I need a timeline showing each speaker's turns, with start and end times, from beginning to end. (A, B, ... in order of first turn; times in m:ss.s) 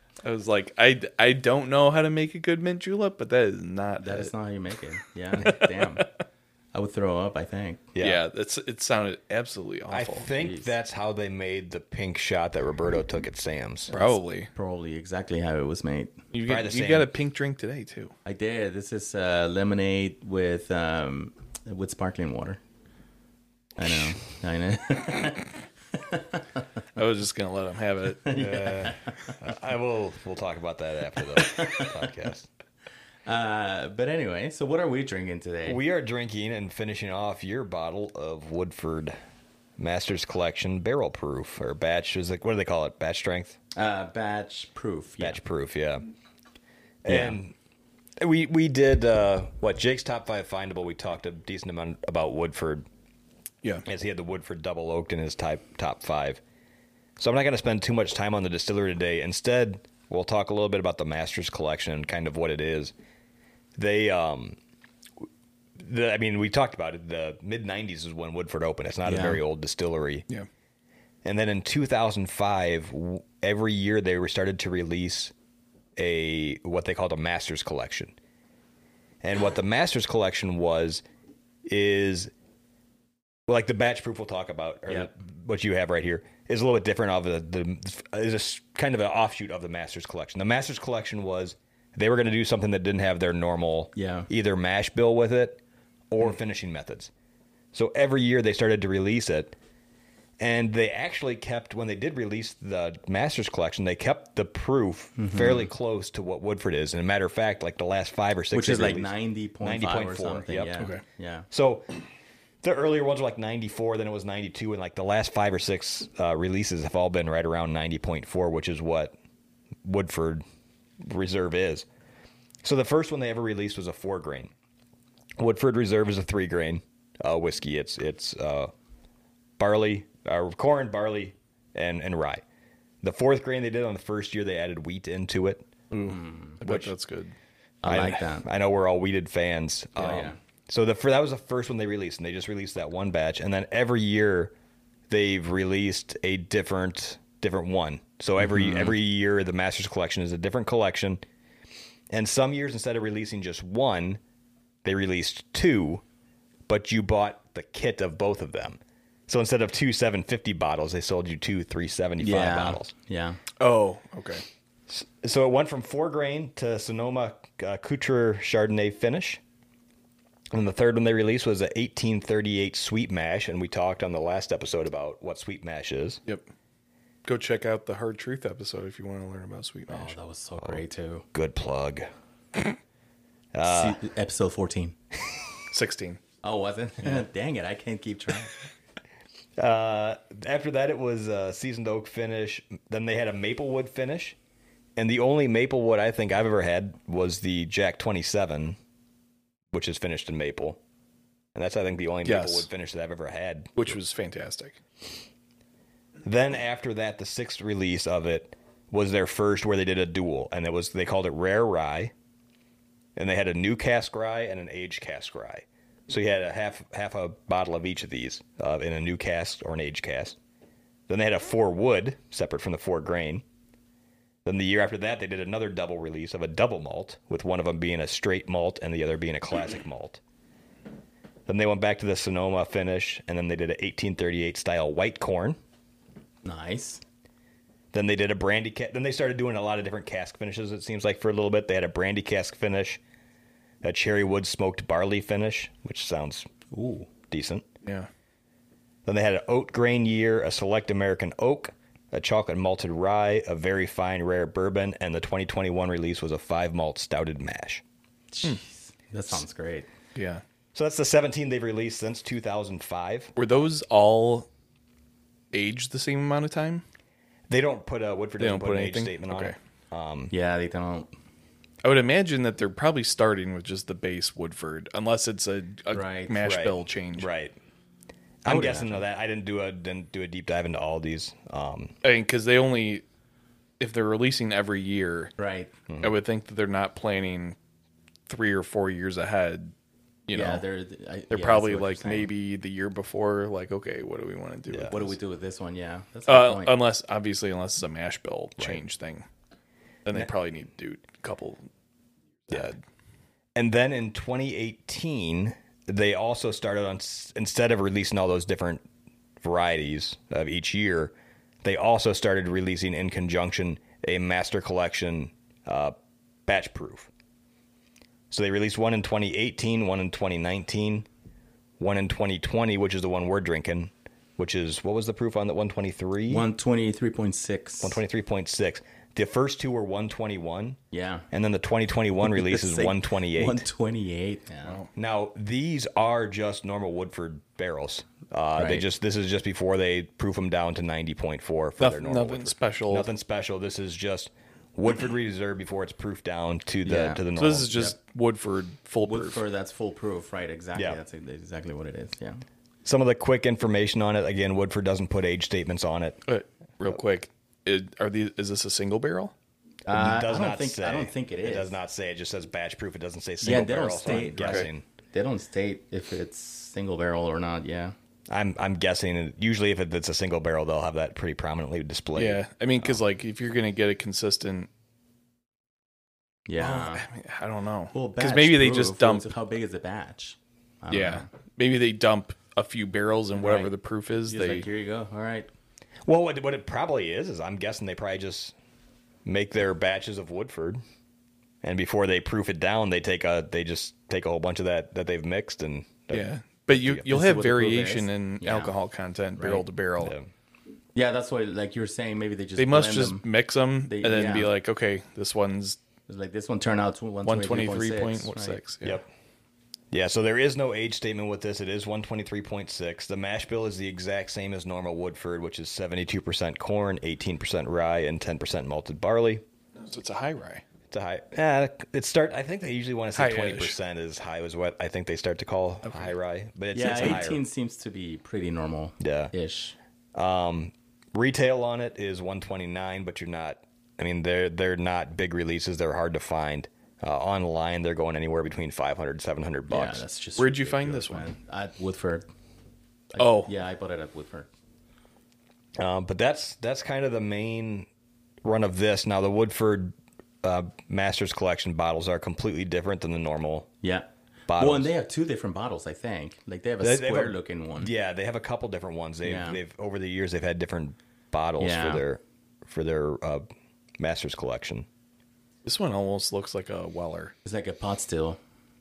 0:00.2-0:04.3 A
0:04.0-0:06.1 B
0:05.4-0:06.1 A
0:06.7-0:07.9 B
0:08.0-0:08.2 C
0:08.0-0:10.3 A
0:09.9-0:13.9 C
0:10.3-0:10.7 B
0:13.9-0:14.5 A
0:13.9-0:16.2 B
0:16.3-0:18.1 A
0:16.4-0:17.1 C
0:18.2-0:22.6 B
0:23.8-0:26.6 B
0:27.0-0:28.9 A
0:28.2-0:29.4 B
0:28.4-0:32.5 C
0:31.4-0:32.0 B
0:33.3-0:35.8 B
0:35.6-0:39.2 C
0:39.8-0:43.6 C
0:43.8-0:45.4 B
0:45.2-0:46.1 C
0:47.0-0:47.5 C
0:47.1-0:47.4 B
0:48.2-0:52.9 C
0:53.8-0:56.4 C
0:57.2-1:02.9 C
1:03.8-1:04.6 C
1:05.8-1:10.3 C
1:09.1-1:09.4 B
1:11.2-1:15.3 C
1:16.0-1:18.1 C
1:19.2-1:21.0 C
1:21.6-1:22.3 C
1:23.5-1:37.1 C
1:34.0-1:34.3 B
1:37.7-1:39.5 C
1:40.4-1:49.1 C
1:45.2-1:45.7 B
1:48.5-1:51.5 B
1:49.6-1:50.9 C
1:51.5-1:52.0 C
1:52.6-1:59.1 C
1:59.8-2:00.4 C
2:01.0-2:01.8 C
2:02.6-2:04.5 C
2:05.4-2:08.7 C
2:09.6-2:12.4 C
2:13.0-2:15.7 C
2:16.0-2:16.6 B
2:16.6-2:17.3 A
2:17.8-2:18.5 B
2:17.9-2:24.5 C
2:20.0-2:20.4 B
2:25.1-2:31.2 C
2:32.1-2:34.2 C
2:34.8-2:36.0 C
2:36.7-2:42.9 C
2:42.2-2:43.4 B
2:43.6-2:44.4 A
2:44.9-2:49.4 C
2:50.5-2:56.2 C
2:57.2-3:00.1 A
2:59.9-3:01.2 B
3:01.3-3:02.1 C
3:03.5-3:04.0 C
3:03.6-3:05.0 B
3:05.7-3:06.2 A
3:06.4-3:08.6 B
3:09.6-3:14.4 C
3:15.0-3:18.8 C
3:19.7-3:20.8 C
3:21.6-3:23.9 C
3:22.2-3:22.7 A
3:23.8-3:24.8 A
3:26.2-3:32.1 C
3:33.2-3:40.4 C
3:41.1-3:43.4 C
3:44.4-3:50.2 C
3:51.5-3:55.6 C
3:56.4-3:57.0 B
3:57.9-4:03.0 C
4:03.8-4:06.5 C
4:06.7-4:07.1 B
4:07.3-4:07.6 C
4:07.8-4:08.1 A
4:09.1-4:17.8 C
4:18.3-4:19.9 B
4:20.1-4:20.4 A
4:20.7-4:23.3 C
4:23.4-4:24.5 A
4:25.5-4:26.8 A
4:27.5-4:30.3 C
4:28.4-4:29.6 A
4:30.3-4:31.1 B
4:31.8-4:37.3 A
4:35.9-4:36.4 B
4:36.4-4:37.6 C
4:38.4-4:42.0 C
4:38.5-4:39.0 B
4:42.0-4:43.0 A
4:43.8-4:45.3 A
4:45.4-4:45.7 B
4:46.0-4:47.6 A
4:48.3-4:49.7 A
4:50.3-4:50.6 A
4:50.3-4:52.3 B
4:51.3-4:55.1 A
4:54.7-4:55.0 C
4:54.9-4:56.8 B
4:56.3-4:59.3 A
5:00.1-5:01.7 A
5:02.5-5:02.8 A
5:03.6-5:08.8 C
5:09.4-5:16.0 C
5:16.5-5:17.1 C
5:18.3-5:21.1 C
5:21.8-5:26.4 C
5:26.3-5:28.0 B
5:27.8-5:30.8 C
5:30.9-5:31.3 B
5:31.3-5:33.6 C
5:32.2-5:34.8 B
5:34.6-5:34.9 A
5:35.0-5:47.9 C
5:38.6-5:38.8 B
5:41.8-5:43.1 A
5:46.8-5:47.2 B
5:47.4-5:49.4 A
5:49.0-5:52.4 B
5:52.8-5:56.2 C
5:56.3-5:59.3 A
5:59.9-6:01.8 B
5:59.9-6:04.8 C
6:03.4-6:08.0 B
6:08.3-6:13.0 C
6:12.2-6:14.7 A
6:16.5-6:17.0 B
6:16.6-6:19.3 A
6:17.9-6:21.3 B
6:20.9-6:24.7 A
6:23.4-6:23.7 B
6:24.3-6:25.5 B
6:26.1-6:28.6 C
6:29.2-6:30.8 C
6:31.6-6:37.1 C
6:36.1-6:40.1 A
6:37.1-6:38.7 B
6:39.4-6:39.6 B
6:40.0-6:40.3 C
6:40.9-6:43.2 B
6:42.6-6:45.8 A
6:43.8-6:44.5 B
6:46.1-6:48.6 B
6:47.2-6:49.0 A
6:49.9-6:59.4 C
6:59.8-7:00.6 A
7:00.9-7:07.4 C
7:03.1-7:03.8 A
7:05.8-7:06.1 A
7:06.7-7:09.8 B
7:09.0-7:09.3 C
7:10.1-7:20.0 C
7:19.7-7:22.2 B
7:20.4-7:21.3 A
7:23.1-7:24.5 B
7:23.2-7:23.5 A
7:25.8-7:27.9 C
7:28.4-7:33.7 C
7:33.8-7:37.9 B
7:34.5-7:34.9 C
7:36.8-7:43.4 C
7:39.2-7:39.6 B
7:41.6-7:42.0 B
7:44.0-7:44.9 C
7:45.6-7:47.3 A
7:47.4-7:48.4 B